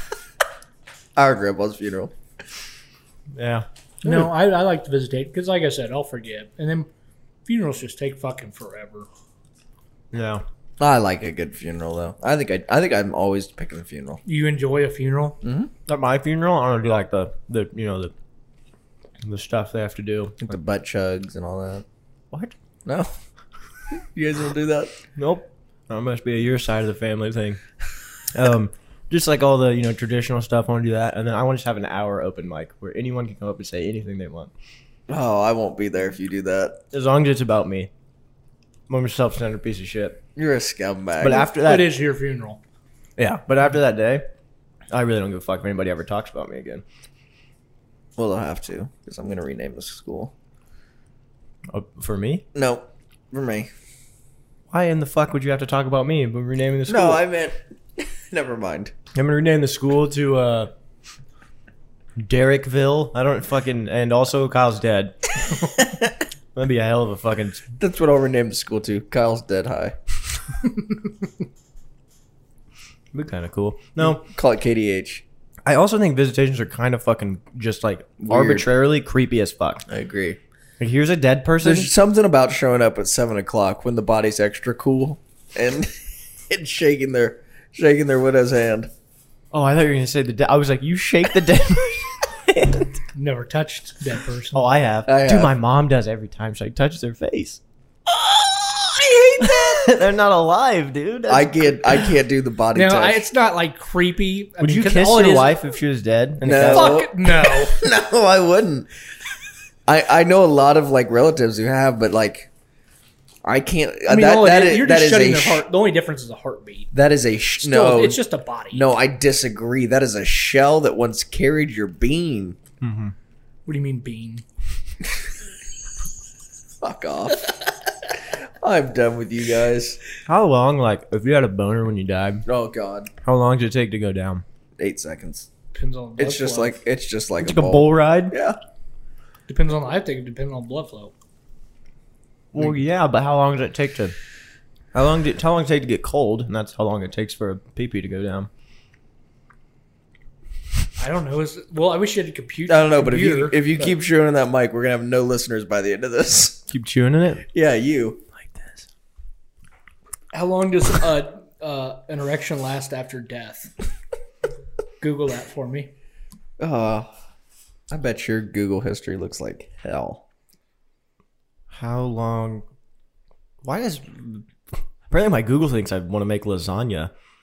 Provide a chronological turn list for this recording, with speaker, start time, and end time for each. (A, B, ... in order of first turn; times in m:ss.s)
0:01.2-0:02.1 A
0:03.4-0:03.7 B
0:04.0-0:06.9 C
0:07.5-0:09.1 C
0:10.1-0:10.4 B
0:10.8-0:14.2 A
0:14.3-0:15.4 C
0:15.4-0:15.7 A
0:15.9-0:18.1 B
0:19.2-0:20.5 B
0:20.4-0:21.8 A
0:22.9-0:23.1 A
0:23.9-0:24.9 A
0:25.2-0:27.6 B
0:28.3-0:34.5 B
0:35.1-0:36.8 A
0:36.9-0:37.9 B
0:38.9-0:40.2 B
0:40.4-0:41.4 A
0:41.2-0:41.9 B
0:41.2-0:42.6 C
0:43.2-0:44.2 B
0:44.9-0:46.8 B
0:48.2-0:50.3 A
0:51.7-0:52.4 B
0:52.6-0:53.7 A
0:54.7-0:57.2 B
0:56.9-0:58.9 A
0:59.1-1:00.7 B
1:02.2-1:05.3 B
1:05.7-1:06.1 A
1:06.6-1:07.7 B
1:07.8-1:10.0 A
1:13.1-1:14.2 B
1:14.0-1:15.2 A
1:15.7-1:19.8 B
1:18.2-1:18.7 A
1:19.9-1:20.4 A
1:20.8-1:21.9 B
1:21.6-1:28.9 A
1:29.5-1:33.0 B
1:33.2-1:34.7 C
1:34.5-1:37.6 B
1:35.1-1:35.5 A
1:38.1-1:39.9 A
1:39.4-1:42.0 B
1:41.3-1:43.2 A
1:42.7-1:45.6 C
1:44.6-1:47.0 B
1:46.4-1:48.9 A
1:46.7-1:47.8 C
1:49.9-1:52.5 A
1:53.4-1:55.6 A
1:54.1-1:56.9 C
1:56.9-1:58.2 A
1:57.6-1:58.9 C
1:58.7-2:02.6 A
2:02.8-2:03.1 B
2:03.7-2:04.4 C
2:06.8-2:07.5 A
2:08.1-2:10.0 A
2:10.3-2:12.5 B
2:12.5-2:13.1 A
2:13.2-2:14.4 B
2:14.8-2:15.5 A
2:15.7-2:16.8 C
2:16.2-2:18.6 A
2:17.4-2:18.4 B
2:19.5-2:21.1 C
2:22.5-2:24.2 B
2:24.9-2:28.5 B
2:31.0-2:33.9 C
2:32.7-2:36.6 A
2:36.7-2:37.4 B
2:37.5-2:38.2 A
2:38.4-2:38.9 B
2:40.3-2:43.7 C
2:45.0-2:45.9 C
2:46.6-2:47.1 A
2:47.9-2:50.2 A
2:51.7-2:52.6 B
2:53.6-2:54.4 B
2:55.1-2:57.1 B